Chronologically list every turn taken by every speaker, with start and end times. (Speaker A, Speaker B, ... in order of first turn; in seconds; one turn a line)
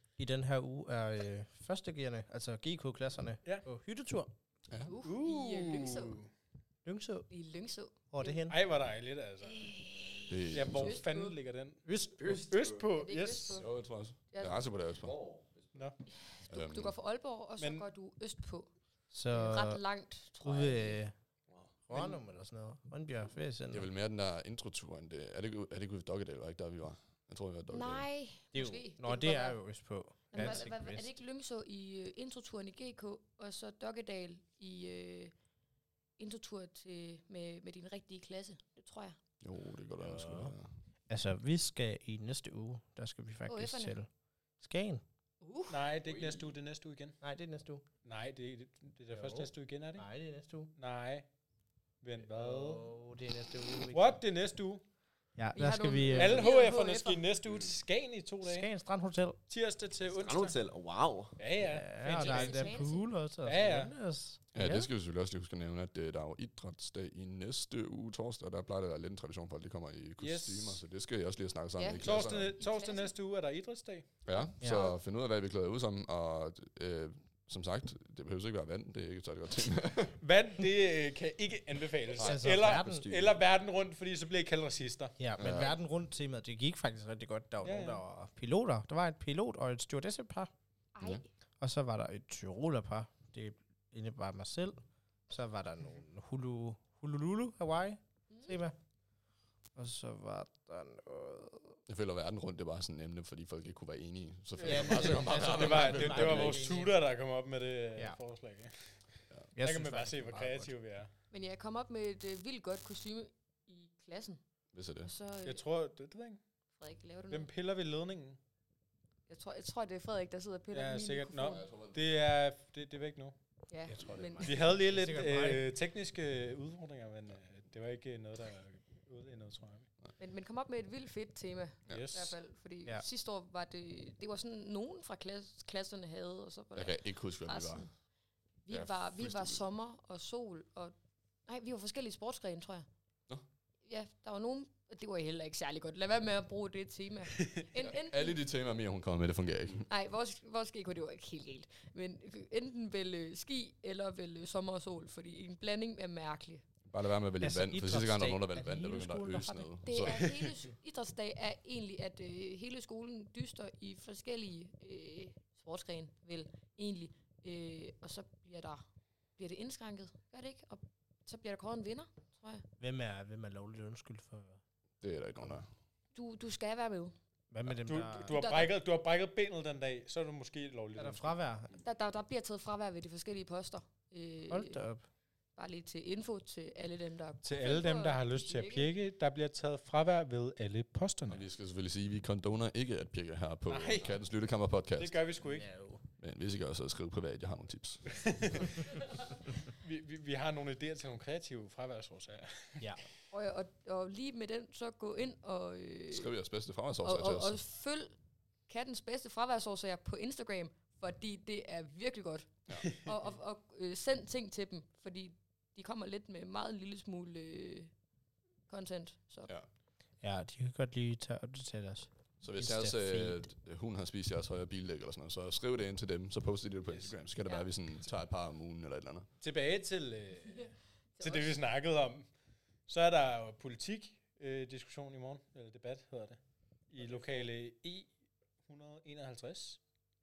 Speaker A: 0.2-4.3
Speaker B: 4.8-6.2
Speaker C: 5.0-6.3
Speaker A: 6.8-7.3
Speaker B: 7.3-8.4
Speaker A: 8.1-8.6
Speaker C: 8.4-9.8
Speaker B: 9.4-11.4
Speaker D: 10.3-11.0
Speaker C: 10.5-13.6
Speaker A: 11.9-12.4
Speaker E: 12.2-12.9
Speaker B: 12.9-13.7
Speaker D: 13.5-15.2
Speaker B: 14.3-14.7
Speaker E: 15.0-15.9
Speaker B: 16.2-18.7
Speaker D: 16.5-17.0
Speaker C: 17.6-17.9
Speaker A: 19.1-19.8
Speaker B: 19.3-21.0
Speaker A: 20.4-21.1
Speaker A: 21.9-23.9
Speaker D: 23.7-28.1
Speaker B: 27.7-29.6
Speaker A: 28.5-31.2
Speaker B: 30.3-35.3
Speaker B: 36.2-39.2
Speaker D: 39.4-40.7
Speaker A: 40.0-40.5
Speaker A: 41.1-44.1
Speaker B: 43.5-44.0
Speaker A: 44.6-45.0
Speaker B: 45.4-45.8
Speaker C: 45.7-47.2
Speaker E: 46.0-46.5
Speaker A: 47.2-47.8
Speaker C: 48.0-50.1
Speaker A: 49.1-50.7
Speaker C: 50.8-51.3
Speaker C: 52.0-52.9
Speaker A: 52.2-54.2
Speaker C: 53.9-54.8
Speaker A: 55.4-56.5
Speaker B: 55.5-57.2
Speaker C: 56.1-58.7
Speaker A: 58.4-59.4
Speaker C: 59.5-60.6
Speaker E: 60.1-61.4
Speaker C: 61.4-62.7
Speaker A: 61.7-64.9
Speaker B: 62.1-63.1
Speaker C: 63.4-63.9
Speaker D: 64.5-72.6
Speaker C: 70.2-70.8
Speaker B: 71.8-73.1
Speaker C: 72.0-74.1
Speaker D: 74.2-80.2
Speaker A: 74.6-75.0
Speaker C: 80.2-85.2
Speaker D: 82.2-82.6
Speaker A: 82.2-83.1
Speaker E: 82.6-83.0
Speaker A: 85.2-90.5
Speaker D: 85.4-85.7
Speaker C: 87.6-88.0
Speaker B: 91.0-91.3
Speaker A: 91.6-98.8
Speaker B: 98.3-98.5
Speaker A: 99.8-101.8
Speaker D: 101.9-106.6
Speaker C: 104.6-111.1
Speaker A: 104.6-107.0
Speaker A: 109.6-110.7
Speaker B: 111.3-114.4
Speaker D: 114.7-115.1
Speaker B: 115.0-115.6
Speaker C: 115.5-116.4
Speaker B: 116.8-117.5
Speaker C: 117.3-118.4
Speaker B: 119.3-121.7
Speaker C: 120.7-123.4
Speaker D: 121.4-122.2
Speaker B: 123.7-124.5
Speaker A: 123.9-125.7
Speaker C: 124.4-129.9
Speaker B: 130.2-137.9
Speaker C: 131.9-132.3
Speaker D: 136.8-137.9
Speaker B: 138.7-140.9
Speaker D: 138.7-139.6
Speaker B: 141.5-142.9
Speaker B: 143.8-148.4
Speaker C: 147.3-147.7
Speaker D: 147.8-149.9
Speaker B: 149.9-156.7
Speaker D: 156.9-160.5
Speaker A: 157.4-160.3
Speaker B: 159.9-168.9
Speaker B: 169.4-172.7
Speaker A: 172.8-174.6
Speaker D: 175.0-175.7
Speaker B: 176.1-177.2
Speaker A: 177.5-178.4
Speaker C: 177.8-181.3
Speaker B: 178.2-178.7
Speaker A: 181.0-181.7
Speaker B: 181.8-184.8
Speaker A: 184.5-185.1
Speaker B: 185.6-188.9
Speaker C: 187.4-191.4
Speaker D: 191.3-195.3
Speaker C: 193.7-194.2
Speaker C: 195.0-195.7
Speaker A: 195.4-196.0
Speaker D: 196.2-198.8
Speaker C: 198.1-202.9
Speaker B: 203.3-206.3
Speaker D: 206.1-207.6
Speaker B: 207.0-208.2
Speaker B: 208.7-217.9
Speaker B: 218.7-219.5
Speaker A: 220.2-223.5
Speaker D: 222.4-229.3
Speaker B: 227.4-227.7
Speaker C: 229.4-232.3
Speaker B: 230.5-231.6
Speaker C: 232.9-238.1
Speaker C: 238.7-239.8